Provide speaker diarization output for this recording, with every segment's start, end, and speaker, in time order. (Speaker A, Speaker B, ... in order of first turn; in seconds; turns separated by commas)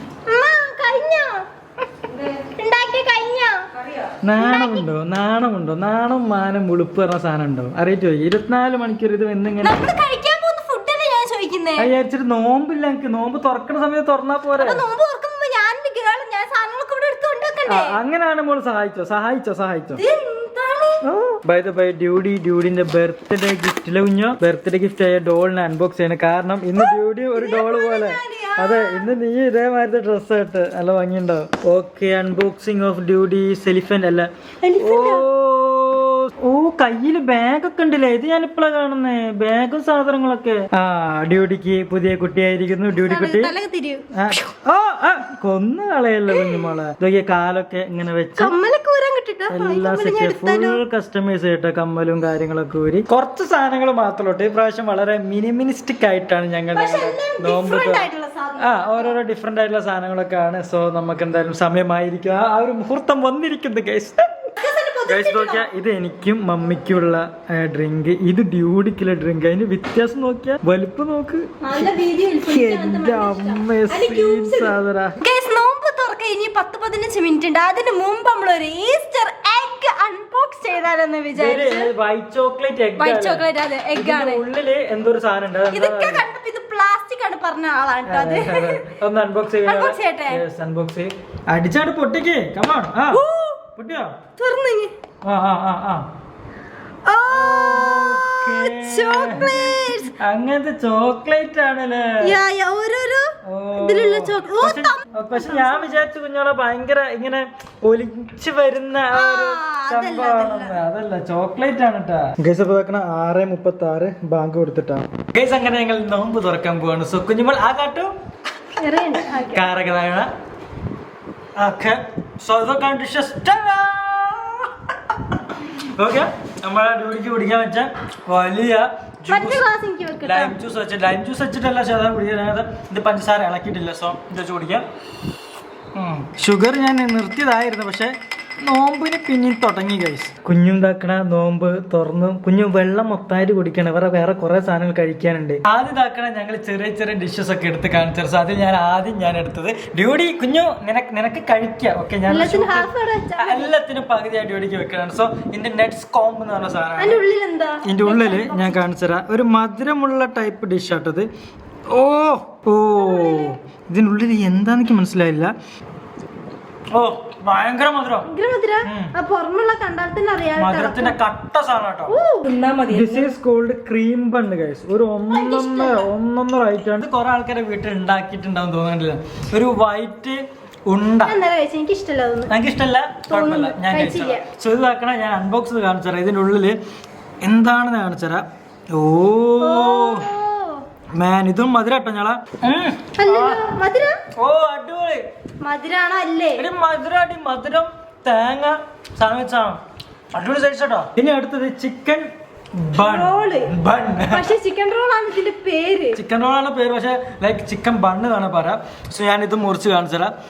Speaker A: 0.2-4.8, Speaker B: 4.2-9.8, Speaker A: 9.6-11.9, Speaker B: 11.8-14.8, Speaker A: 14.6-18.0, Speaker B: 17.7-20.0, Speaker A: 19.9-21.0, Speaker B: 21.0-43.5, Speaker A: 26.8-29.1, Speaker A: 34.6-35.2, Speaker A: 42.9-44.5, Speaker B: 44.1-48.5, Speaker A: 46.3-46.7, Speaker A: 48.4-50.8, Speaker B: 49.5-64.4, Speaker A: 56.7-59.2, Speaker A: 64.6-65.7, Speaker B: 65.1-71.8, Speaker A: 71.6-81.9, Speaker B: 72.4-75.2, Speaker B: 81.3-86.2, Speaker A: 83.0-84.4, Speaker A: 85.7-88.9, Speaker B: 88.0-93.2, Speaker A: 89.6-90.4, Speaker A: 93.1-93.6, Speaker B: 93.7-94.2, Speaker A: 94.4-94.9, Speaker B: 95.2-96.0, Speaker A: 97.0-100.1, Speaker B: 97.3-102.4, Speaker A: 102.2-106.0, Speaker B: 103.4-118.1, Speaker A: 109.1-110.8, Speaker A: 118.8-119.7, Speaker B: 119.2-120.3, Speaker B: 121.5-129.6, Speaker A: 129.3-130.6, Speaker B: 130.2-134.8, Speaker B: 135.9-157.2, Speaker A: 152.3-153.7, Speaker A: 157.0-158.8, Speaker B: 157.8-161.3, Speaker B: 161.9-165.5, Speaker A: 162.9-163.6, Speaker B: 166.9-168.3, Speaker A: 168.2-171.2, Speaker B: 168.8-169.1, Speaker B: 170.6-172.2, Speaker A: 172.1-173.4, Speaker B: 172.9-181.4, Speaker A: 175.3-176.1, Speaker A: 181.2-182.5, Speaker B: 182.5-186.8, Speaker A: 183.3-184.4, Speaker B: 187.4-190.3, Speaker A: 189.6-190.8, Speaker B: 191.2-193.7, Speaker A: 193.2-194.2, Speaker B: 194.3-195.2, Speaker A: 195.6-196.7, Speaker B: 196.6-199.8, Speaker B: 200.3-204.5, Speaker A: 202.9-203.8, Speaker A: 204.3-206.2, Speaker B: 206.1-210.3